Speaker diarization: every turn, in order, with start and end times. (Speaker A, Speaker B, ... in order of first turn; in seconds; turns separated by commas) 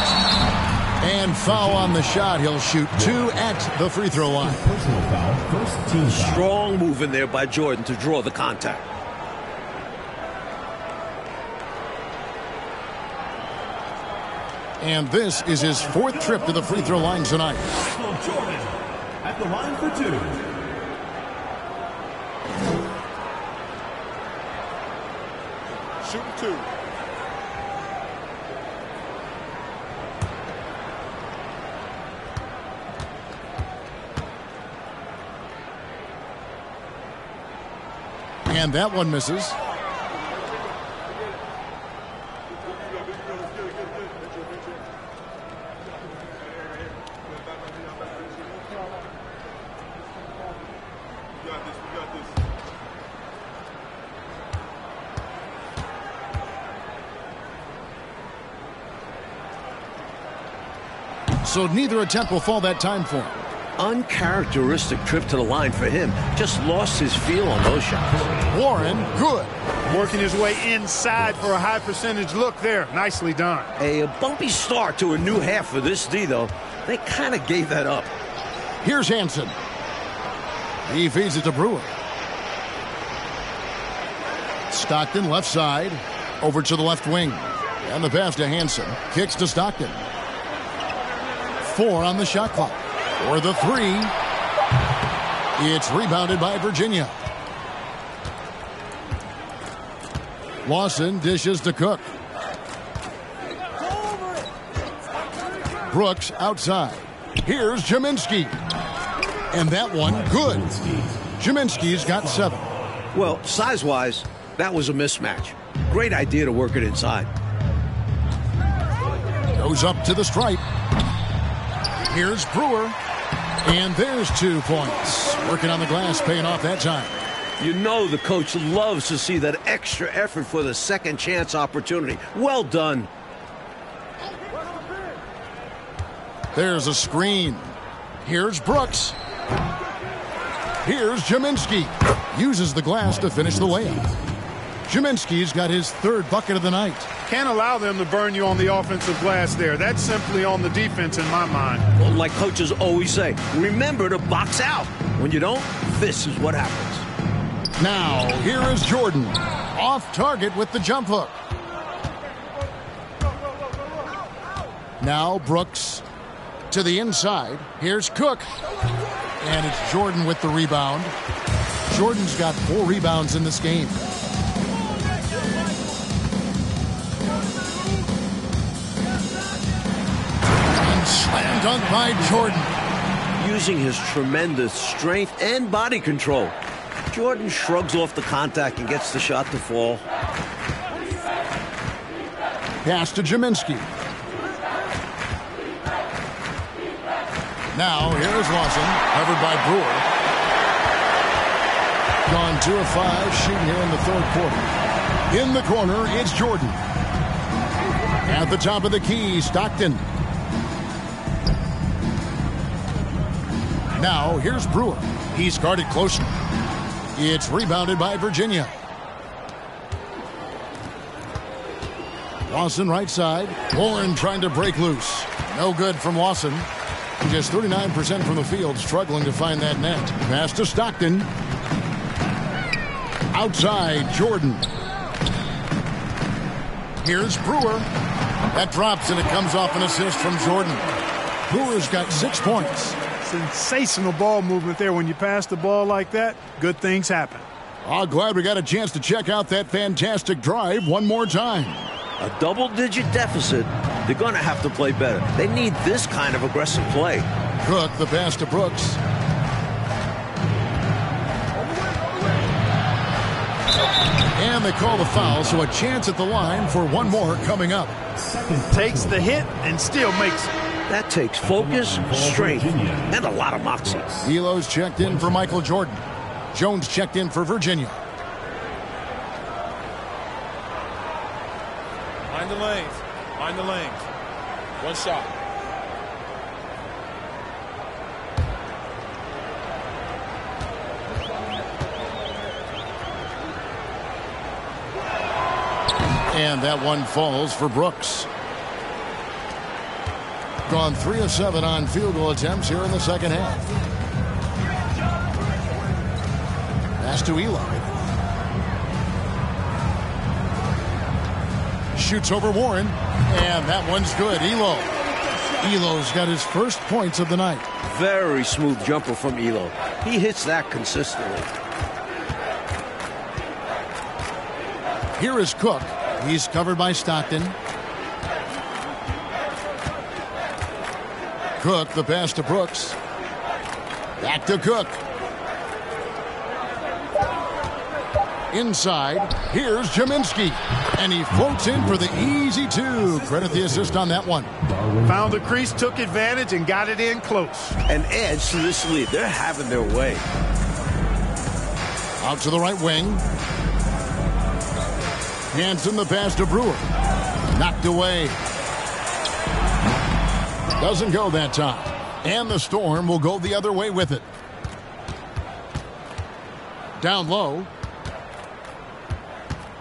Speaker A: 1.0-4.6, Speaker B: 3.0-3.3, Speaker B: 4.4-6.5, Speaker C: 6.1-8.8, Speaker A: 14.8-17.7, Speaker B: 17.8-20.6, Speaker D: 26.0-26.7, Speaker A: 38.5-39.6, Speaker A: 61.4-63.5, Speaker C: 63.8-68.4, Speaker B: 68.2-68.5, Speaker A: 68.5-69.5, Speaker E: 69.9-73.7, Speaker C: 73.8-78.1, Speaker A: 78.8-79.5, Speaker A: 80.8-81.9, Speaker A: 84.7-90.0, Speaker A: 91.6-94.1, Speaker A: 95.6-97.1, Speaker A: 100.6-102.1, Speaker A: 105.9-108.6, Speaker A: 109.5-110.7, Speaker B: 110.2-111.3, Speaker A: 111.4-112.7, Speaker C: 113.1-117.3, Speaker A: 119.5-120.6, Speaker A: 122.1-123.0, Speaker A: 123.6-127.2, Speaker C: 127.6-133.1, Speaker A: 136.5-139.2, Speaker A: 140.8-144.0, Speaker B: 143.1-144.4, Speaker A: 144.9-147.1, Speaker E: 147.3-151.8, Speaker C: 152.0-157.1, Speaker A: 157.8-161.3, Speaker A: 165.0-166.0, Speaker A: 166.7-168.5, Speaker A: 169.4-171.1, Speaker A: 171.9-174.0, Speaker A: 180.8-182.7, Speaker C: 183.3-186.5, Speaker C: 187.1-190.0, Speaker A: 192.8-193.9, Speaker A: 197.7-200.1, Speaker A: 202.2-204.7, Speaker A: 205.3-206.8, Speaker A: 208.2-210.0, Speaker A: 213.9-216.4, Speaker A: 217.1-218.7, Speaker A: 222.5-226.7, Speaker A: 227.2-231.3, Speaker A: 233.3-234.7, Speaker A: 237.0-237.9, Speaker A: 238.5-240.8, Speaker A: 241.5-243.0, Speaker E: 243.2-247.4, Speaker A: 247.8-251.9, Speaker C: 252.2-257.3, Speaker A: 257.6-259.0, Speaker A: 264.3-268.0, Speaker B: 268.1-269.3, Speaker E: 268.7-270.5, Speaker C: 270.9-274.1, Speaker B: 271.4-273.2, Speaker B: 273.8-274.3, Speaker A: 274.2-278.0, Speaker B: 275.0-275.5, Speaker D: 282.3-284.1, Speaker D: 284.8-285.3, Speaker A: 296.3-298.3, Speaker A: 300.6-303.7, Speaker A: 307.0-307.9, Speaker A: 311.9-314.9, Speaker A: 315.6-317.6, Speaker C: 317.8-321.5, Speaker A: 325.1-327.6, Speaker A: 331.6-333.0, Speaker A: 334.2-335.0, Speaker A: 338.5-344.5, Speaker B: 341.5-342.3, Speaker B: 343.0-344.0, Speaker B: 344.6-345.4, Speaker E: 345.1-347.7, Speaker C: 347.9-350.2, Speaker A: 352.2-353.2, Speaker A: 355.5-356.9, Speaker A: 357.5-358.4, Speaker A: 360.8-364.2, Speaker A: 367.0-367.7